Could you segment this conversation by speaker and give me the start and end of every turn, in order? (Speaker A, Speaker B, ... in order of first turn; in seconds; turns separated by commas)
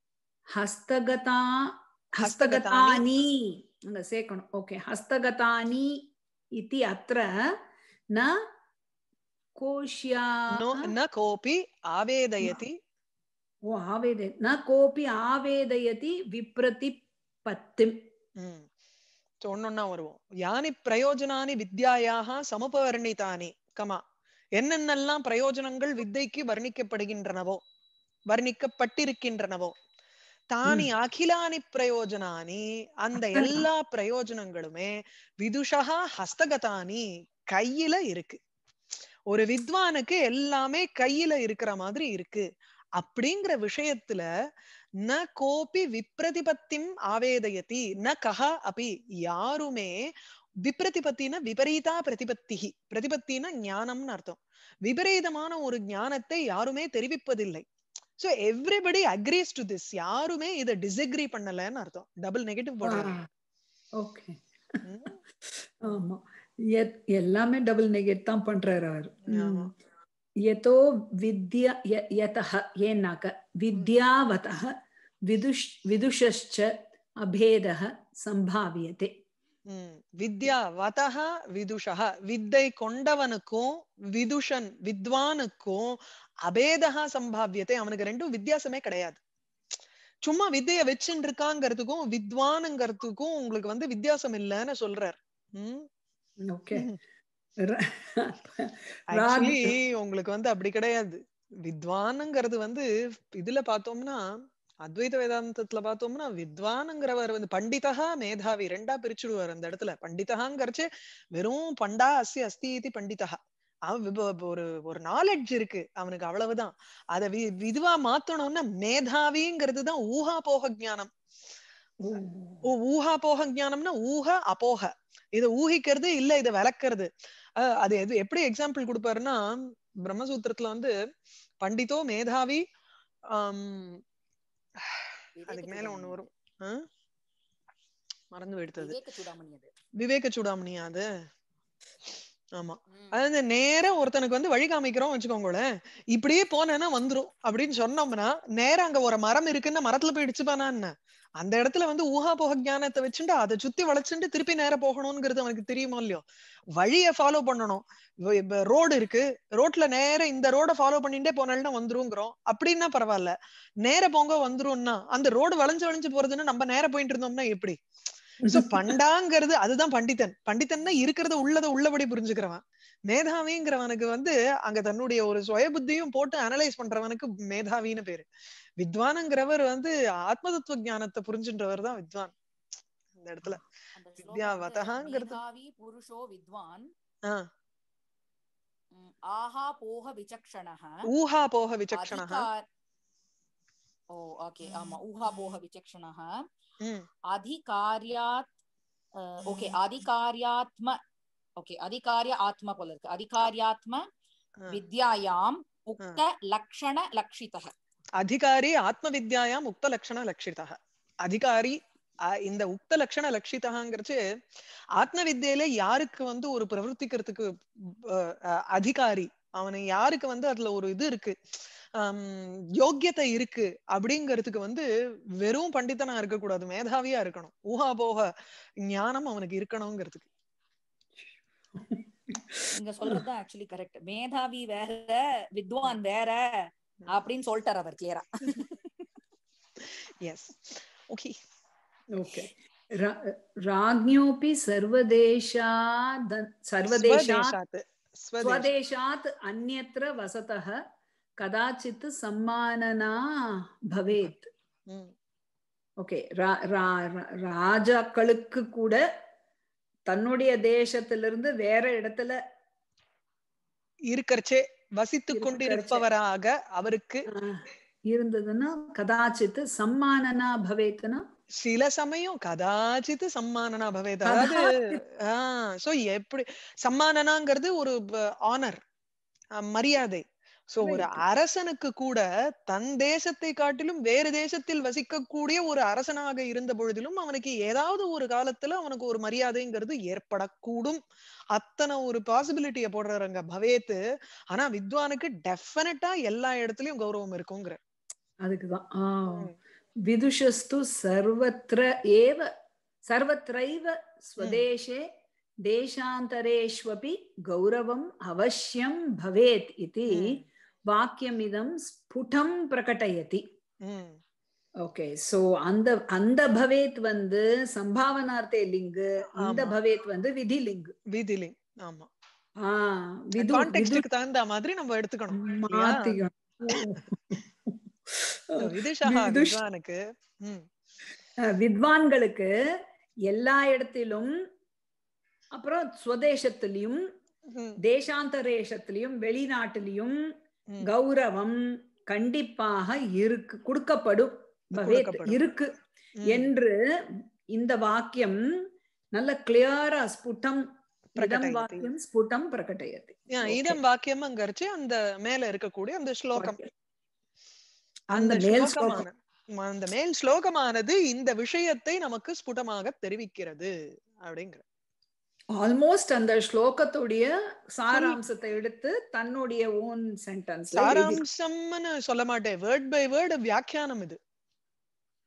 Speaker A: 0.6-7.5, Speaker B: 2.2-3.0, Speaker A: 8.1-8.4, Speaker A: 9.6-10.9, Speaker B: 10.5-12.8, Speaker A: 13.7-18.0, Speaker B: 18.4-18.7, Speaker B: 19.4-24.0, Speaker B: 24.6-27.6, Speaker B: 28.3-29.8, Speaker B: 30.5-38.4, Speaker A: 33.2-33.7, Speaker B: 39.3-44.3, Speaker B: 45.0-50.1, Speaker B: 50.6-57.6, Speaker B: 58.2-63.1, Speaker A: 62.8-63.2, Speaker A: 64.0-64.4, Speaker B: 64.8-65.1, Speaker A: 65.4-69.7, Speaker B: 69.3-69.7, Speaker A: 70.4-74.7, Speaker A: 75.2-79.1, Speaker B: 79.7-89.2, Speaker B: 90.2-95.9, Speaker A: 96.4-96.9, Speaker A: 97.6-99.7, Speaker B: 99.1-121.1, Speaker A: 122.0-122.7, Speaker B: 122.7-130.9, Speaker B: 131.6-132.6, Speaker B: 133.3-134.0, Speaker B: 134.8-136.8, Speaker C: 135.4-136.2, Speaker B: 138.3-139.0, Speaker C: 138.7-139.7, Speaker B: 140.0-141.1, Speaker B: 142.5-156.2, Speaker C: 142.9-143.2, Speaker B: 156.8-167.8, Speaker A: 168.4-168.9, Speaker B: 168.5-178.3, Speaker B: 178.8-182.3, Speaker B: 183.1-183.6, Speaker C: 183.9-186.9, Speaker B: 184.2-185.4, Speaker C: 188.9-191.1, Speaker B: 191.1-192.5, Speaker C: 191.9-192.6, Speaker C: 194.1-196.4, Speaker B: 194.6-195.0, Speaker B: 196.8-197.1, Speaker C: 197.3-198.4, Speaker C: 199.2-201.0, Speaker B: 199.4-199.8, Speaker C: 201.6-204.0, Speaker C: 204.7-207.7, Speaker B: 208.2-214.2, Speaker B: 214.9-221.3, Speaker B: 222.0-224.8, Speaker B: 225.4-230.3, Speaker A: 231.8-233.2, Speaker C: 232.7-238.8, Speaker B: 239.8-241.3, Speaker A: 242.1-247.6, Speaker B: 246.8-248.7, Speaker A: 248.4-250.8, Speaker A: 251.4-254.5, Speaker B: 254.9-255.1, Speaker A: 256.0-259.0, Speaker A: 260.1-262.4, Speaker B: 264.1-267.2, Speaker A: 265.3-266.0, Speaker A: 267.3-271.2, Speaker B: 271.6-278.8, Speaker A: 274.2-275.0, Speaker B: 279.6-291.0, Speaker A: 280.8-281.2, Speaker B: 291.5-294.0, Speaker B: 294.5-297.8, Speaker A: 298.4-299.5, Speaker A: 300.0-302.5, Speaker A: 303.1-305.0, Speaker A: 305.6-313.4, Speaker B: 310.1-310.4, Speaker B: 313.8-314.2, Speaker A: 314.8-320.9, Speaker B: 319.4-319.7, Speaker B: 321.1-322.1, Speaker A: 322.6-324.1, Speaker B: 323.4-326.2, Speaker A: 325.3-329.6, Speaker B: 328.6-330.7, Speaker A: 331.5-332.5, Speaker A: 333.3-334.3, Speaker A: 335.5-337.0, Speaker B: 337.5-337.8, Speaker A: 337.8-340.2, Speaker A: 340.8-345.7, Speaker B: 344.8-345.4, Speaker B: 346.2-346.5, Speaker A: 346.3-346.7, Speaker A: 347.5-348.4, Speaker A: 349.1-350.6, Speaker B: 351.2-351.9, Speaker A: 351.2-353.8, Speaker B: 353.3-356.6, Speaker A: 356.4-356.7, Speaker A: 358.1-359.0, Speaker B: 358.1-364.6, Speaker A: 365.6-371.2, Speaker B: 367.9-368.2, Speaker B: 370.8-374.2